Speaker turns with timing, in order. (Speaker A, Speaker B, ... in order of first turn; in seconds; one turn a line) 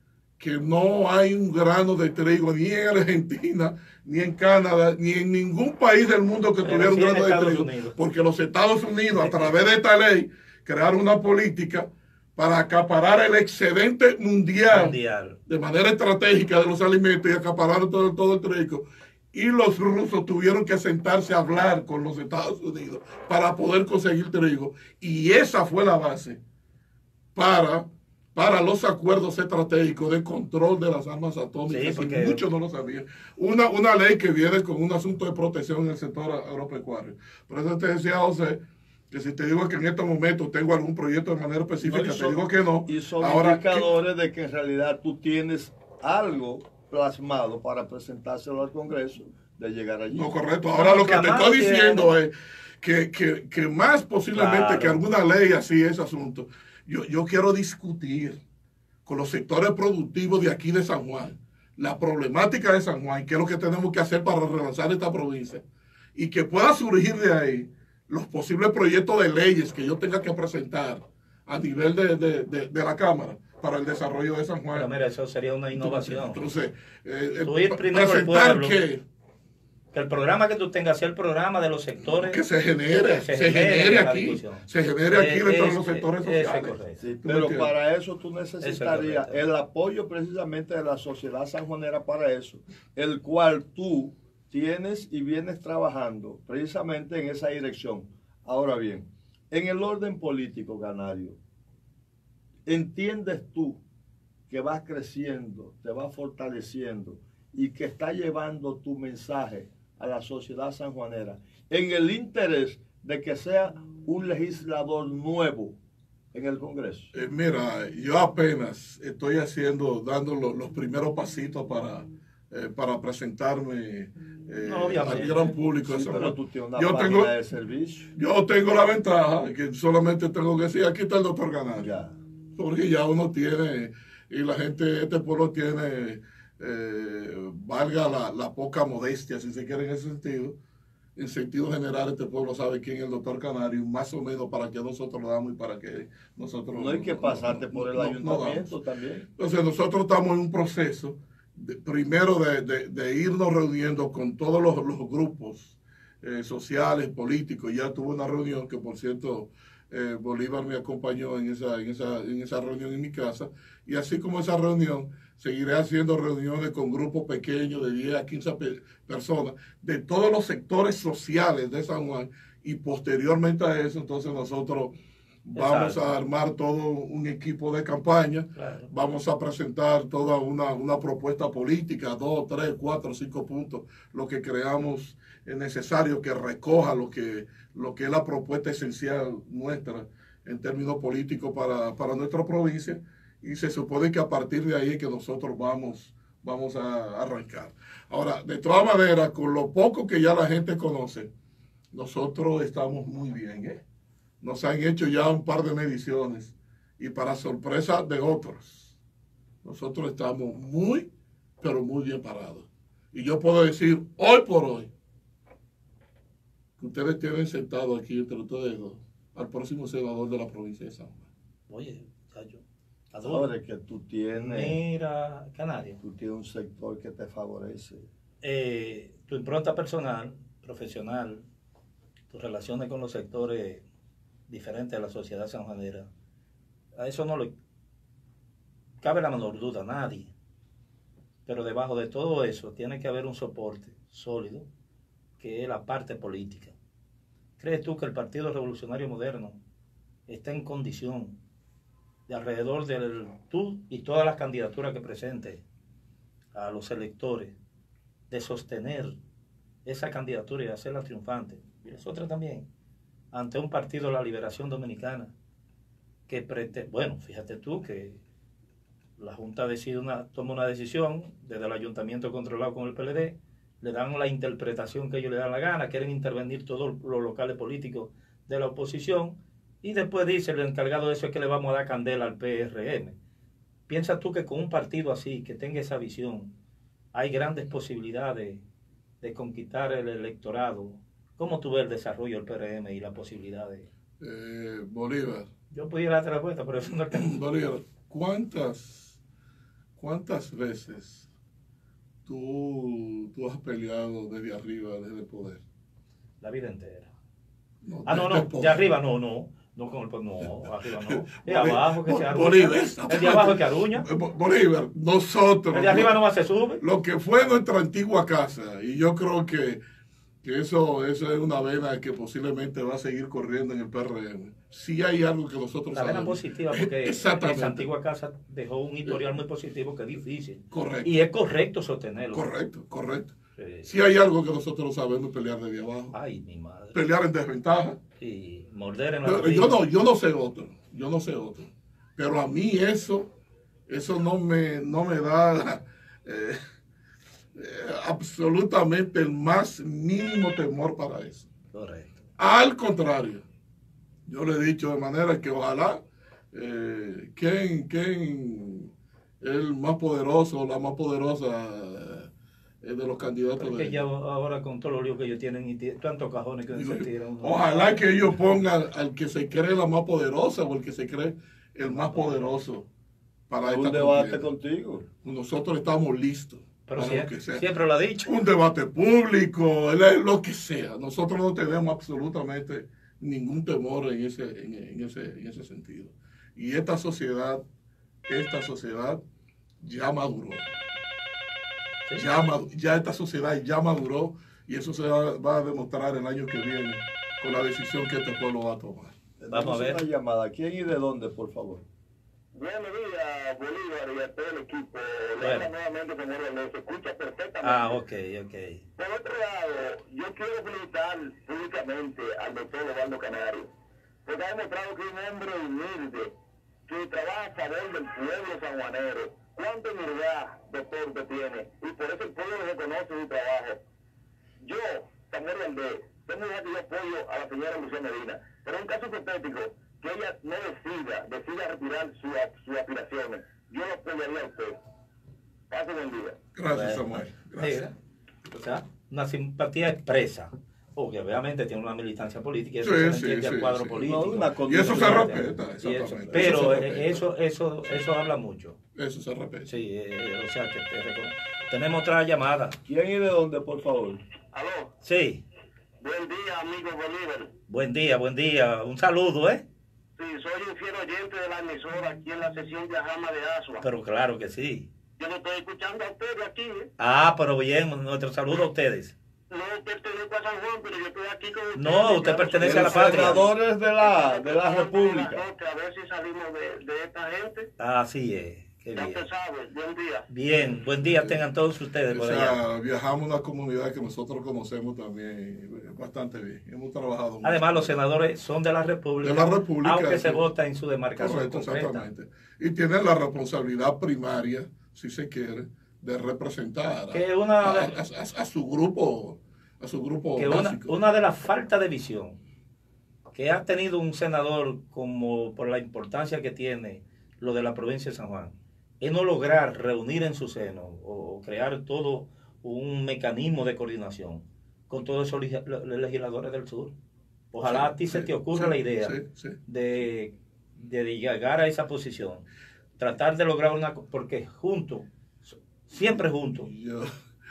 Speaker A: 0.4-26.4
Speaker B: 6.6-8.0
Speaker B: 9.1-9.5
Speaker B: 14.7-15.4
Speaker A: 27.4-43.9
Speaker B: 31.7-32.4
Speaker C: 41.8-50.3
Speaker A: 50.1-58.4
Speaker B: 50.7-52.1
Speaker B: 54.3-55.0
Speaker A: 59.0-65.6
Speaker A: 66.2-74.9
Speaker B: 74.7-76.4
Speaker A: 75.7-79.0
Speaker B: 77.4-78.8
Speaker B: 79.9-87.0
Speaker A: 82.0-87.7
Speaker C: 87.0-101.4
Speaker B: 88.6-89.5
Speaker C: 102.7-103.8
Speaker C: 104.5-115.8
Speaker C: 116.3-117.1
Speaker A: 117.1-127.3
Speaker B: 124.7-125.5
Speaker C: 125.8-128.1
Speaker A: 128.2-131.9
Speaker C: 131.8-132.1
Speaker A: 132.6-140.6
Speaker A: 141.2-148.8
Speaker C: 146.7-149.3
Speaker A: 149.4-174.9
Speaker A: 175.4-201.3
Speaker B: 175.6-176.0
Speaker B: 178.6-178.9
Speaker A: 201.9-203.8
Speaker A: 204.4-209.0
Speaker A: 209.6-211.1
Speaker A: 211.6-214.9
Speaker A: 216.8-221.3
Speaker B: 221.7-223.5
Speaker C: 223.3-224.8
Speaker B: 224.3-226.0
Speaker C: 226.0-228.1
Speaker B: 228.4-231.4
Speaker B: 232.3-233.8
Speaker B: 234.5-236.1
Speaker B: 237.0-237.5
Speaker B: 239.0-240.3
Speaker B: 241.5-244.7
Speaker B: 245.4-246.7
Speaker B: 247.6-249.6
Speaker B: 250.3-251.4
Speaker B: 252.3-255.6
Speaker B: 256.5-257.5
Speaker B: 258.3-259.2
Speaker B: 259.9-262.7
Speaker B: 263.3-265.3
Speaker B: 266.3-268.2
Speaker B: 269.2-283.1
Speaker B: 283.9-286.5
Speaker B: 287.1-288.6
Speaker B: 289.2-293.9
Speaker A: 294.2-295.5
Speaker B: 295.7-297.3
Speaker A: 297.1-299.2
Speaker A: 300.0-301.3
Speaker A: 302.3-305.6
Speaker B: 306.4-307.1
Speaker A: 307.9-308.8
Speaker B: 308.1-314.1
Speaker A: 311.1-316.2
Speaker B: 315.7-316.8
Speaker A: 316.8-319.8
Speaker A: 320.4-327.9
Speaker B: 325.9-332.5
Speaker A: 330.7-331.1
Speaker A: 332.3-333.3
Speaker B: 333.6-333.9
Speaker A: 333.8-336.2
Speaker B: 336.1-337.0
Speaker A: 336.9-338.0
Speaker B: 338.2-339.8
Speaker A: 339.2-343.3
Speaker A: 343.9-346.6
Speaker A: 347.6-351.5
Speaker B: 351.7-352.2
Speaker A: 352.4-353.4
Speaker A: 354.3-362.3
Speaker A: 362.8-364.0
Speaker B: 363.6-368.4
Speaker A: 366.7-372.9
Speaker B: 371.8-372.5
Speaker A: 373.5-374.5
Speaker C: 373.6-375.1
Speaker A: 375.2-377.7
Speaker B: 376.9-378.3
Speaker A: 378.2-387.6
Speaker A: 388.3-389.2
Speaker A: 389.8-390.7
Speaker A: 392.1-399.2
Speaker C: 399.4-401.9
Speaker B: 399.5-400.0
Speaker D: 402.6-408.0
Speaker B: 405.4-405.7
Speaker B: 407.6-408.9
Speaker D: 409.0-413.7
Speaker D: 414.3-416.3
Speaker D: 416.9-423.8
Speaker D: 424.6-434.8
Speaker D: 435.7-436.4
Speaker A: 436.6-437.9
Speaker B: 436.7-437.9
Speaker B: 438.5-448.8
Speaker A: 442.8-444.1
Speaker C: 444.0-445.5
Speaker A: 444.7-447.2
Speaker A: 448.9-449.7
Speaker B: 449.7-452.8
Speaker C: 452.9-454.2
Speaker D: 454.5-454.9
Speaker B: 455.0-455.4
Speaker D: 456.0-457.5
Speaker B: 457.7-459.6
Speaker D: 460.2-463.8
Speaker B: 463.8-464.9
Speaker D: 465.2-466.9
Speaker B: 467.0-469.1
Speaker D: 469.5-477.7
Speaker B: 471.8-473.5
Speaker C: 472.6-475.4
Speaker B: 477.8-479.3
Speaker D: 479.0-480.3
Speaker B: 480.3-482.6
Speaker A: 481.0-481.4
Speaker A: 482.1-487.9
Speaker B: 487.4-492.1
Speaker A: 489.2-490.4
Speaker A: 491.2-501.0
Speaker B: 497.1-498.0
Speaker B: 500.4-502.4
Speaker B: 503.3-516.9
Speaker B: 517.5-522.5
Speaker A: 517.6-519.6
Speaker B: 523.0-526.7
Speaker A: 526.2-527.1